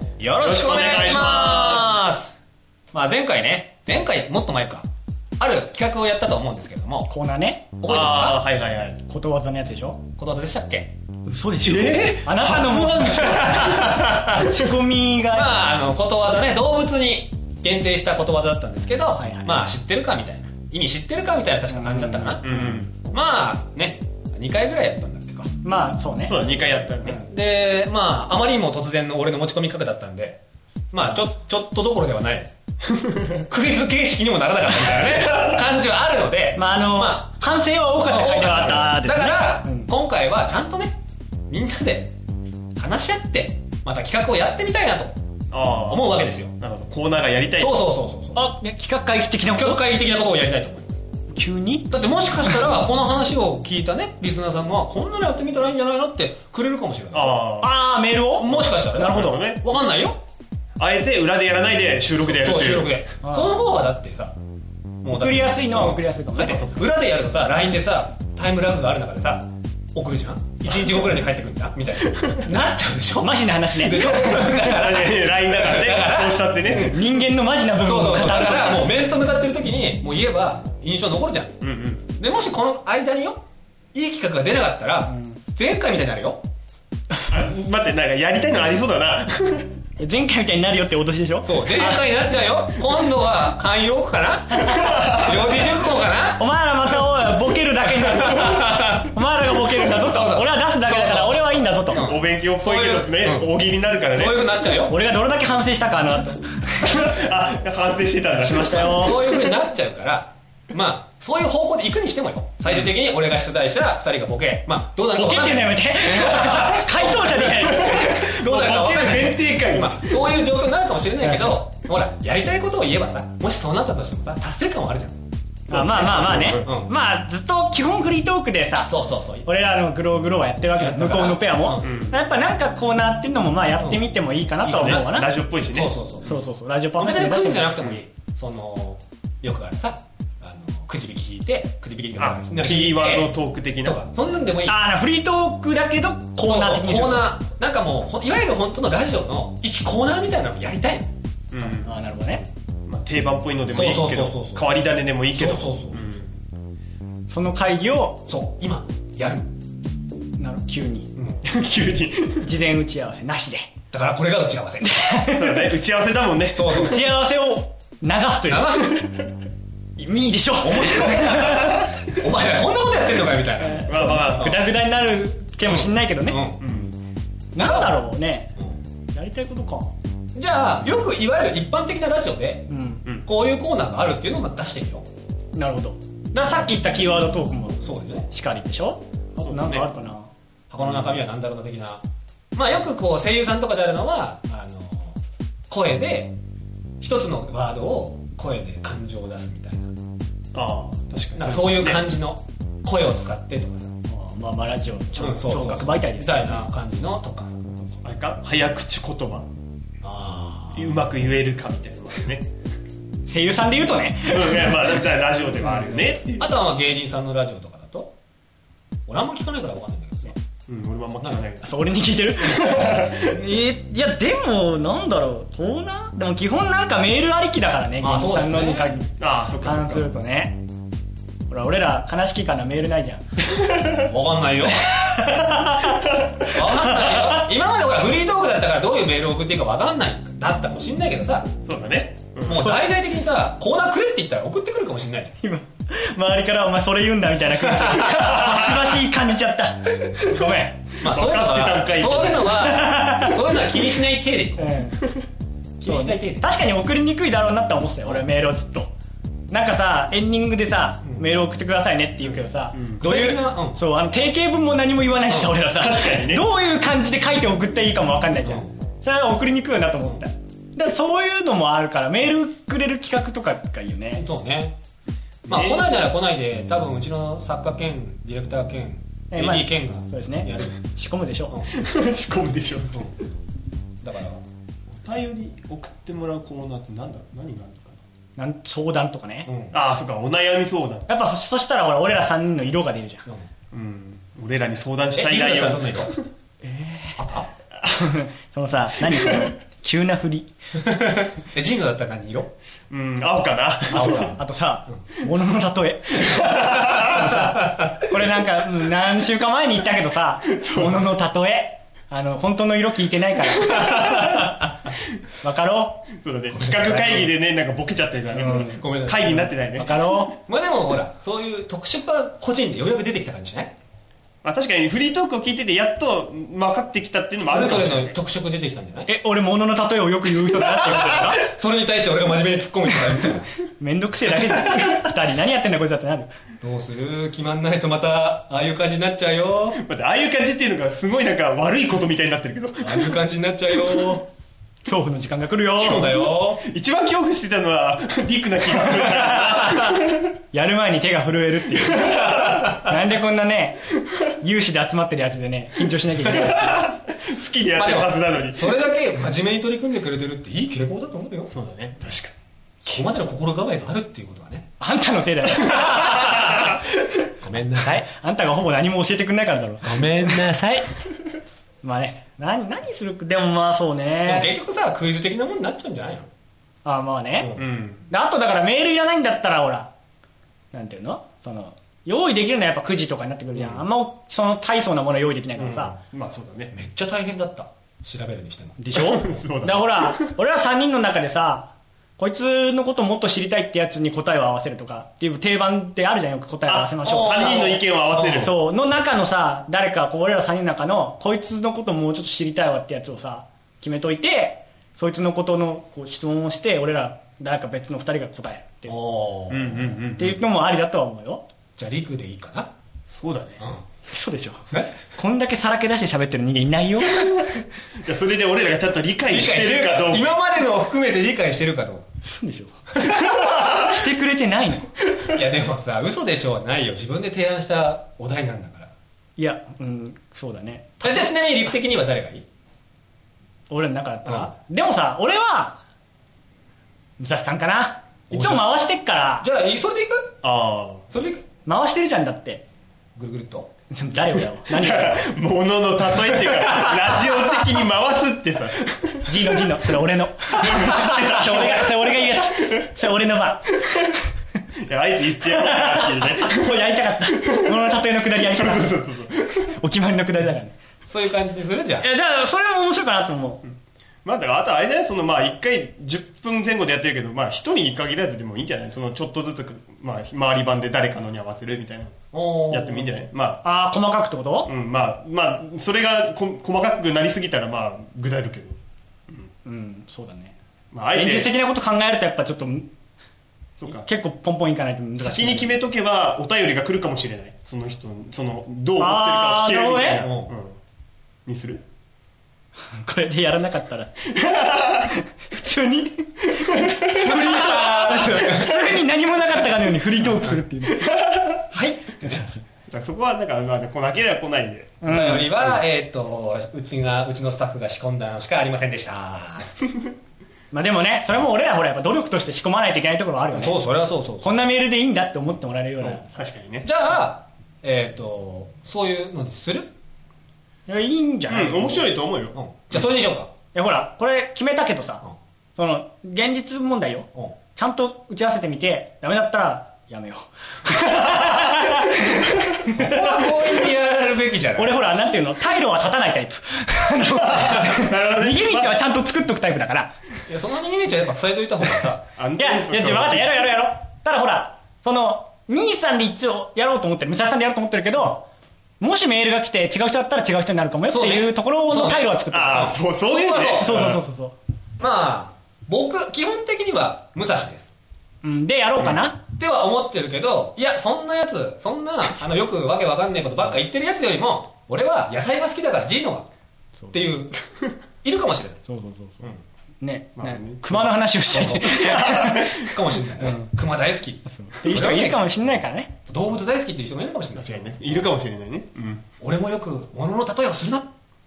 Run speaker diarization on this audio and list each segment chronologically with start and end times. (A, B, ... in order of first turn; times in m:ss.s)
0:00.2-0:02.3 A
0:00.4-0:01.9 B
0:02.9-0:04.9 A
0:05.4-0:07.1 A
0:07.1-0:07.9 C
0:07.8-0:08.4 A
0:07.8-0:09.0 B
0:09.1-0:10.0 C
0:10.2-0:10.9 A
0:11.3-0:15.6 C
0:11.6-0:14.7 B
0:13.2-0:14.2 A
0:15.3-0:25.5 A
0:19.2-0:19.6 C
0:21.7-0:22.7 C
0:22.4-0:22.9 B
0:25.6-0:26.4 C
0:26.2-0:27.2 B
0:27.1-0:30.4 A
0:30.9-0:32.5 A
0:33.0-0:33.2 B
0:33.4-0:37.3 A
0:36.6-0:39.9 C
0:38.0-0:40.9 A
0:38.5-0:38.8 B
0:41.5-0:42.1 A
0:42.8-0:45.2 A
0:45.5-0:47.8 B
0:45.9-0:46.5 A
0:47.6-0:48.4 A
0:48.4-0:49.9 C
0:49.5-0:51.0 A
0:51.3-0:52.0 C
0:51.9-0:57.4 A
0:57.1-0:57.7 B
0:57.6-0:58.6 C
0:58.4-1:00.2 A
0:58.5-0:59.6 B
1:00.8-1:03.0 B
1:02.2-1:04.4 A
1:03.2-1:03.5 C
1:05.0-1:16.4 A
1:05.1-1:06.7 C
1:06.4-1:06.7 B
1:12.1-1:12.4 B
1:13.2-1:15.0 C
1:13.9-1:17.1 B
1:16.6-1:18.9 C
1:17.7-1:21.6 A
1:21.6-1:22.1 B
1:22.1-1:23.4 A
1:23.9-1:26.4 A
1:25.1-1:25.4 C
1:27.3-1:29.7 B
1:30.0-1:32.1 C
1:31.4-1:36.4 A
1:34.6-1:35.7 B
1:36.4-1:42.1 C
1:38.0-1:43.5 A
1:42.0-1:44.5 B
1:44.1-1:45.0 A
1:44.9-1:47.0 C
1:46.8-1:49.5 B
1:48.4-1:49.5 C
1:48.8-2:05.2 A
1:55.1-1:58.4 C
1:57.6-2:00.4 B
2:01.2-2:01.6 C
2:05.7-2:08.9 C
2:05.7-2:06.7 B
2:06.6-2:06.9 A
2:08.9-2:09.5 A
2:09.4-2:15.3 C
2:10.7-2:12.0 A
2:11.8-2:12.2 B
2:14.6-2:16.4 A
2:14.7-2:15.9 B
2:16.2-2:17.8 C
2:17.0-2:24.8 A
2:22.2-2:24.0 B
2:24.7-2:27.3 C
2:26.4-2:31.1 A
2:31.5-2:31.9 B
2:31.8-2:32.4 C
2:32.9-2:36.4 B
2:33.7-2:36.0 A
2:37.3-2:38.2 C
2:38.3-2:39.5 A
2:40.4-2:41.1 C
2:41.4-2:42.5 B
2:42.4-2:43.7 C
2:43.9-2:45.3 A
2:44.8-2:45.7 C
2:45.3-2:46.9 B
2:46.5-2:47.2 A
2:46.7-2:49.0 C
2:48.5-2:49.2 A
2:50.0-2:51.8 C
2:50.6-2:54.7 A
2:53.6-2:56.4 C
2:53.8-2:54.6 B
2:55.6-2:56.6 A
2:56.6-2:57.0 B
2:57.6-2:58.5 C
2:57.6-2:58.0 A
2:59.1-2:59.9 C
3:00.4-3:02.7 A
3:02.7-3:03.1 C
3:03.2-3:05.1 A
3:05.6-3:10.3 C
3:07.8-3:08.3 A
3:09.4-3:09.9 B
3:10.7-3:12.0 A
3:10.8-3:11.2 B
3:12.6-3:15.2 A
3:15.7-3:16.4 A
3:17.0-3:19.9 A
3:20.5-3:22.1 B
3:21.4-3:23.9 A
3:24.1-3:26.7 C
3:25.2-3:28.0 A
3:28.0-3:29.5 B
3:30.0-3:31.0 A
3:30.7-3:32.5 B
3:33.3-3:35.0 C
3:34.3-3:36.5 B
3:36.4-3:38.1 A
3:39.1-3:40.4 A
3:40.7-3:41.8 B
3:41.6-3:50.6 C
3:42.4-3:43.4 B
3:48.0-3:48.9 A
3:49.2-3:50.1 B
3:51.5-3:53.2 C
3:54.0-3:54.9 A
3:54.9-3:57.4 C
3:56.4-4:01.5 A
4:01.7-4:02.7 B
4:02.5-4:05.3 A
4:02.5-4:02.9 C
4:05.4-4:10.9 C
4:07.8-4:08.5 A
4:08.2-4:08.9 B
4:11.0-4:14.8 A
4:11.0-4:12.7 B
4:12.6-4:13.4 C
4:14.6-4:15.1 C
4:15.8-4:16.5 A
4:15.8-4:18.9 C
4:19.5-4:34.3 C
4:22.2-4:23.1 B
4:23.0-4:23.8 A
4:25.8-4:26.4 B
4:28.4-4:28.7 A
4:34.2-4:34.8 A
4:35.5-4:36.0 B
4:35.5-4:40.8 A
4:39.3-4:41.6 C
4:41.7-4:43.1 B
4:44.0-4:44.4 A
4:44.9-4:48.0 B
4:48.4-4:49.5 C
4:49.5-4:49.8 A
4:49.7-4:51.1 B
4:51.1-4:53.3 C
4:53.7-4:56.2 B
4:55.1-4:56.1 A
4:56.7-4:57.2 C
4:57.2-4:57.5 A
4:57.9-5:00.5 C
4:59.1-4:59.5 B
5:00.9-5:02.5 A
5:02.9-5:04.4 B
5:03.9-5:14.7 C
5:03.9-5:04.4 A
5:06.2-5:07.3 B
5:10.4-5:11.1 B
5:15.4-5:16.1 C
5:16.2-5:19.9 B
5:16.6-5:17.2 A
5:18.3-5:18.8 C
5:18.7-5:19.5 A
5:19.8-5:20.4 C
5:20.5-5:23.7 A
5:24.4-5:28.2 B
5:27.4-5:29.1 A
5:29.1-5:31.5 C
5:30.8-5:33.5 A
5:33.8-5:36.3 C
5:34.7-5:35.0 A
5:36.6-5:39.8 A
5:39.8-5:43.2 B
5:42.8-5:44.3 A
5:44.8-5:46.2 C
5:45.8-5:50.2 B
5:45.8-5:46.6 A
5:50.5-5:56.9 C
5:52.0-5:52.4 B
5:56.2-5:58.7 B
5:57.8-6:01.5 A
6:01.5-6:02.3 B
6:02.8-6:04.7 A
6:04.8-6:06.7 C
6:07.4-6:08.1 A
6:08.1-6:10.4 C
6:09.8-6:10.9 A
6:11.8-6:14.5 C
6:14.2-6:16.3 A
6:16.8-6:17.5 C
6:17.4-6:17.6 A
6:17.6-6:18.1 B
6:18.1-6:19.9 C
6:20.7-6:26.0 C
6:23.6-6:23.8 B
6:25.6-6:26.7 B
6:26.7-6:28.8 A
6:28.8-6:37.8 C
6:28.9-6:30.3 B
6:36.7-6:38.6 B
6:37.0-6:38.5 A
6:38.4-6:49.0 C
6:48.9-6:50.1 A
6:49.5-6:50.4 B
6:50.2-6:51.4 C
6:51.8-6:52.7 A
6:53.1-6:53.6 B
6:54.1-6:57.5 C
6:54.7-6:55.0 A
6:58.0-7:00.3 B
6:59.3-7:02.0 A
7:02.2-7:04.9 C
7:03.2-7:03.9 B
7:05.2-7:08.9 A
7:09.4-7:11.3 C
7:11.0-7:12.5 A
7:13.7-7:15.8 C
7:17.2-7:19.5 C
7:18.3-7:18.8 A
7:19.4-7:20.4 A
7:20.4-7:21.1 B
7:21.1-7:21.4 A
7:21.7-7:22.6 C
7:23.2-7:23.7 A
7:23.9-7:25.2 C
7:24.2-7:29.7 B
7:26.5-7:27.0 A
7:29.3-7:33.8 C
7:30.6-7:32.7 B
7:34.8-7:37.7 B
7:35.4-7:39.0 C
7:38.4-7:39.7 B
7:39.8-7:40.8 C
7:41.1-7:42.1 A
7:42.0-7:43.6 C
7:44.2-7:52.2 B
7:52.3-7:53.1 A
7:52.7-7:53.6 B
7:53.6-7:54.7 C
7:54.7-7:58.8 B
7:59.6-8:00.6 C
8:00.9-8:01.5 B
8:01.1-8:02.9 C
8:03.8-8:04.1 B
8:03.9-8:05.8 C
8:05.2-8:10.8 B
8:09.0-8:10.3 C
8:10.2-8:10.5 A
8:11.5-8:11.8 B
8:12.9-8:21.2 C
8:14.5-8:14.9 B
8:16.8-8:17.2 B
8:17.2-8:19.1 A
8:21.0-8:21.5 B
8:21.7-8:22.5 A
8:22.2-8:22.6 C
8:22.9-8:25.0 B
8:25.0-8:25.5 C
8:25.0-8:29.9 A
8:30.7-8:33.8 C
8:33.5-8:34.6 A
8:34.4-8:36.3 C
8:36.0-8:36.9 B
8:36.8-8:39.9 A
8:40.9-8:42.1 C
8:41.5-8:42.6 B
8:42.5-8:43.5 A
8:43.7-8:45.2 C
8:45.8-8:53.7 C
8:51.4-8:51.7 B
8:52.9-8:55.0 A
8:54.8-9:00.2 C
8:57.4-8:59.0 B
9:00.5-9:02.3 A
9:02.4-9:03.6 B
9:02.6-9:08.5 C
9:09.0-9:13.0 C
9:11.1-9:14.1 A
9:12.5-9:14.2 B
9:13.8-9:14.6 C
9:15.0-9:17.9 A
9:18.4-9:19.4 C
9:19.0-9:26.5 A
9:27.1-9:27.6 A
9:28.2-9:28.8 A
9:28.9-9:33.7 C
9:30.4-9:31.1 B
9:31.5-9:35.5 A
9:32.1-9:32.7 B
9:34.5-9:36.1 C
9:36.3-9:38.2 A
9:37.6-9:39.2 B
9:39.4-9:41.1 A